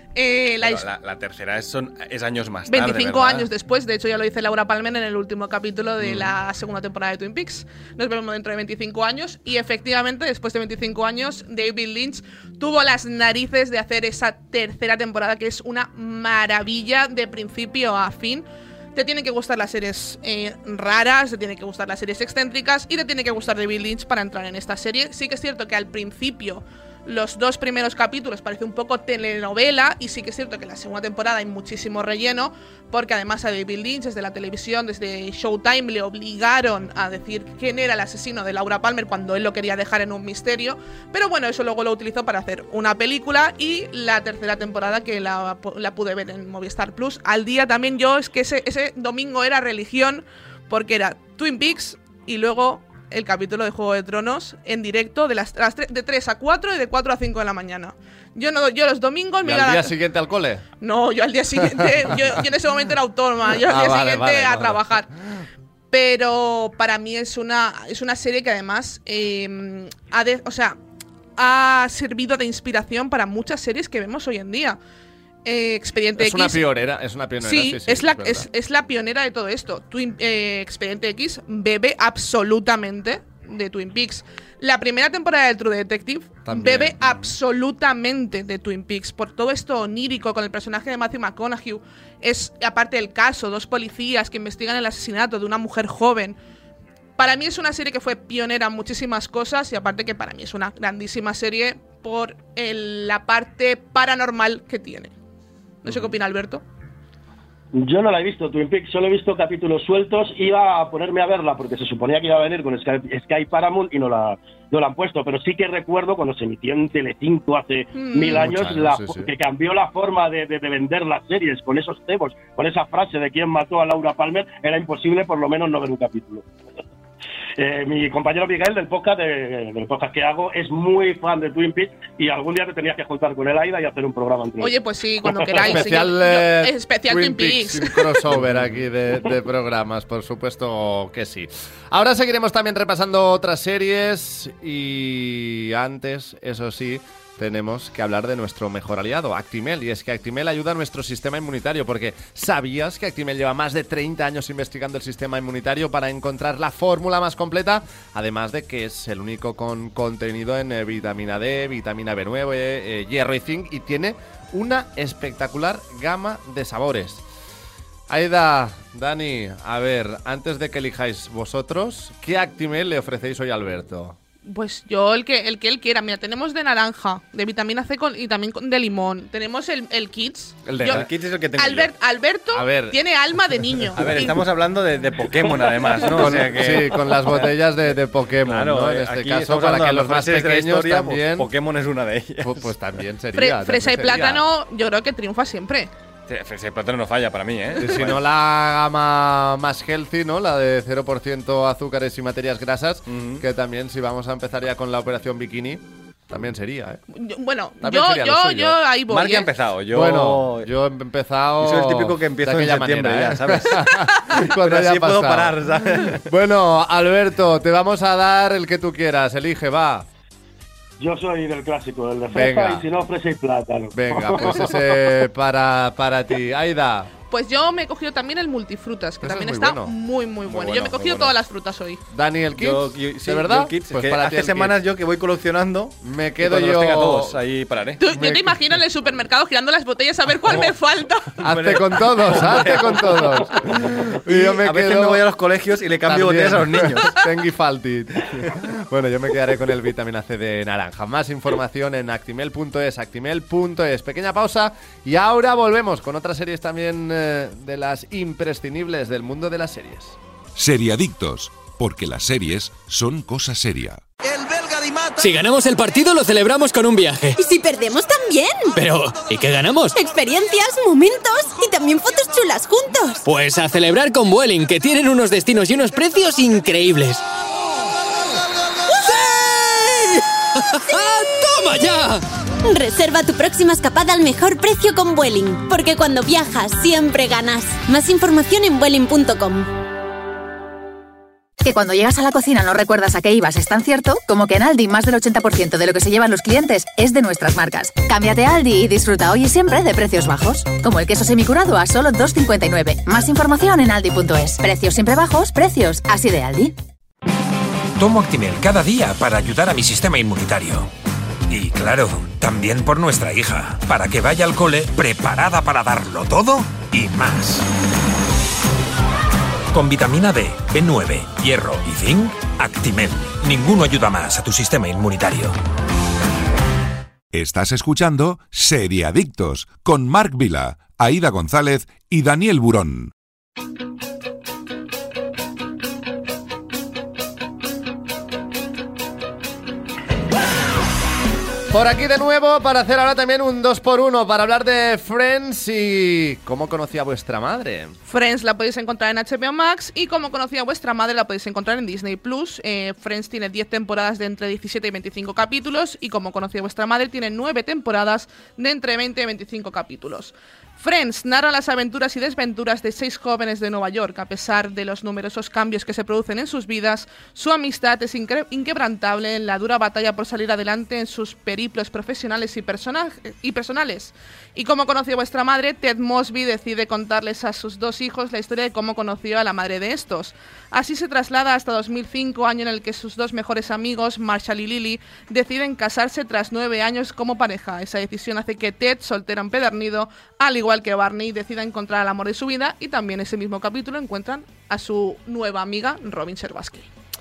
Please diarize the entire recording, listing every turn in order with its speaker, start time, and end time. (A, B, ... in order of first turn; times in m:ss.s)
0:00.2-0:00.8 A
0:00.6-0:03.5 B
0:02.7-1:00.0 A
0:06.0-0:06.3 B
0:59.4-1:00.6 C
1:00.8-1:05.1 A
1:03.6-1:04.8 C
1:05.9-1:10.8 A
1:11.4-1:14.8 A
1:15.4-1:16.6 A
1:16.2-1:18.5 C
1:17.4-1:36.4 A
1:26.4-1:27.0 C
1:27.0-1:27.3 B
1:37.2-1:45.1 A
1:45.8-1:46.6 A
1:45.9-1:46.1 B
1:47.7-2:06.5 D
1:57.9-1:58.5 A
1:58.3-1:59.3 C
2:07.6-2:15.6 D
2:14.6-2:18.2 A
2:15.6-2:47.2 C
2:48.1-2:54.2 C
2:54.5-3:01.0 A
3:00.6-3:01.1 C
3:00.9-3:01.9 B
3:01.6-3:04.4 A
3:02.5-3:04.4 C
3:04.0-3:07.5 B
3:05.6-3:06.0 D
3:06.1-3:11.5 C
3:08.4-3:12.7 B
3:12.4-3:14.4 C
3:13.3-3:15.9 A
3:16.3-3:18.2 B
3:17.8-3:27.0 C
3:23.1-3:23.4 B
3:27.1-3:29.5 A
3:27.8-3:28.8 C
3:29.1-3:30.7 B
3:29.9-3:40.1 C
3:31.6-3:36.3 B
3:41.0-3:45.2 D
3:42.3-3:42.9 C
3:43.9-3:47.1 C
3:47.3-3:52.0 A
3:49.2-3:49.9 C
3:50.5-3:51.3 B
3:52.1-3:54.8 C
3:52.6-3:58.0 B
3:56.0-3:57.4 C
3:58.0-4:01.4 A
3:58.1-3:58.6 C
4:00.5-4:00.7 B
4:01.4-4:03.6 B
4:01.4-4:05.2 C
4:04.3-4:07.2 B
4:06.1-4:20.2 C
4:20.6-4:24.0 E
4:25.1-4:27.4 F
4:27.4-4:28.8 G
4:28.8-4:30.0 F
4:29.9-4:33.2 G
4:33.3-4:37.2 F
4:39.0-4:40.2 F
4:40.8-4:42.2 F
4:42.7-4:49.7 G
4:51.6-5:06.7 H
5:08.0-5:10.9 I
5:11.5-5:17.6 I
5:19.7-5:25.6 I
5:27.3-5:33.1 E
5:41.7-5:48.0 C
5:48.1-6:36.9 A